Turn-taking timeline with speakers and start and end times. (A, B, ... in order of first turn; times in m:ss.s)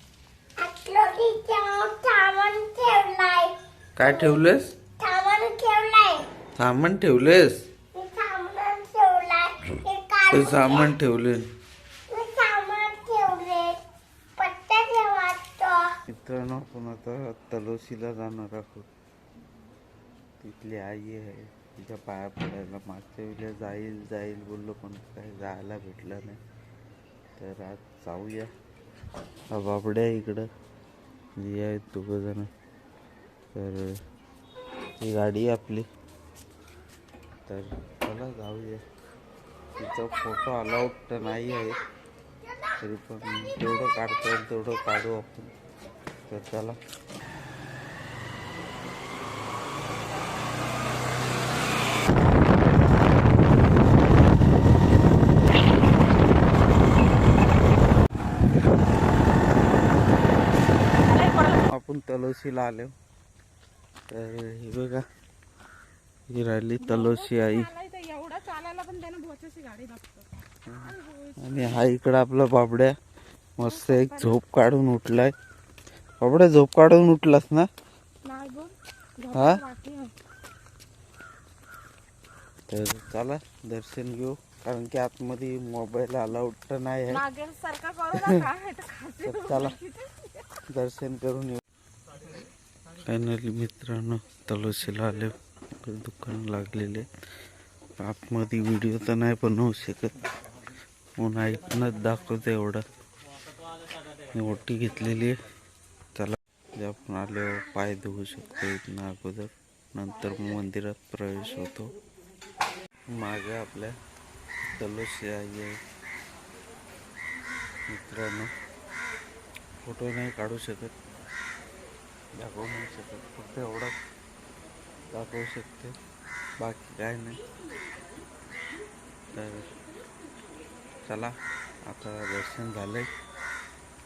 0:00.6-0:03.6 A
0:04.0-0:04.7 B
0:04.1-0:04.3 A
0:05.0-0:06.3 A
0:06.6-0:07.6 B
0:07.9-0:11.0 A
0:10.3-0:11.5 B
0:12.1-0:13.8 A
0:14.4-0:15.9 A
0:16.1-0:18.9 B
0:20.4-0:26.4 B
0:27.4-0:28.5 B
0:29.5-0:30.5 B
0:31.4-0:32.5 B
0:33.5-0:34.0 B
0:35.0-0:35.9 B
0:37.5-0:38.8 B
0:39.8-0:41.8 B
0:42.8-0:45.6 B
0:46.3-0:46.8 B
1:01.0-1:01.7 C
1:01.7-1:02.9 B
1:04.1-1:05.0 B
1:06.3-1:07.7 B
1:06.8-1:10.3 C
1:10.7-1:13.0 B
1:10.9-1:11.8 C
1:13.6-1:15.3 B
1:13.6-1:14.4 C
1:16.2-1:17.7 B
1:18.2-1:20.1 C
1:19.3-1:19.6 B
1:22.7-1:27.2 B
1:27.1-1:30.3 C
1:28.1-1:28.5 B
1:29.2-1:29.8 B
1:30.7-1:31.6 B
1:33.0-1:37.1 B
1:38.0-1:40.2 B
1:41.2-1:42.8 B
1:44.3-1:45.4 B
1:46.2-1:51.9 B
1:53.1-1:54.0 B
1:54.7-1:55.8 B
1:57.9-1:58.5 B
1:59.8-2:00.9 B
2:02.4-2:04.0 B
2:05.1-2:06.0 B
2:06.6-2:07.4 B
2:09.3-2:09.7 B
2:11.1-2:11.4 B
2:11.9-2:13.1 B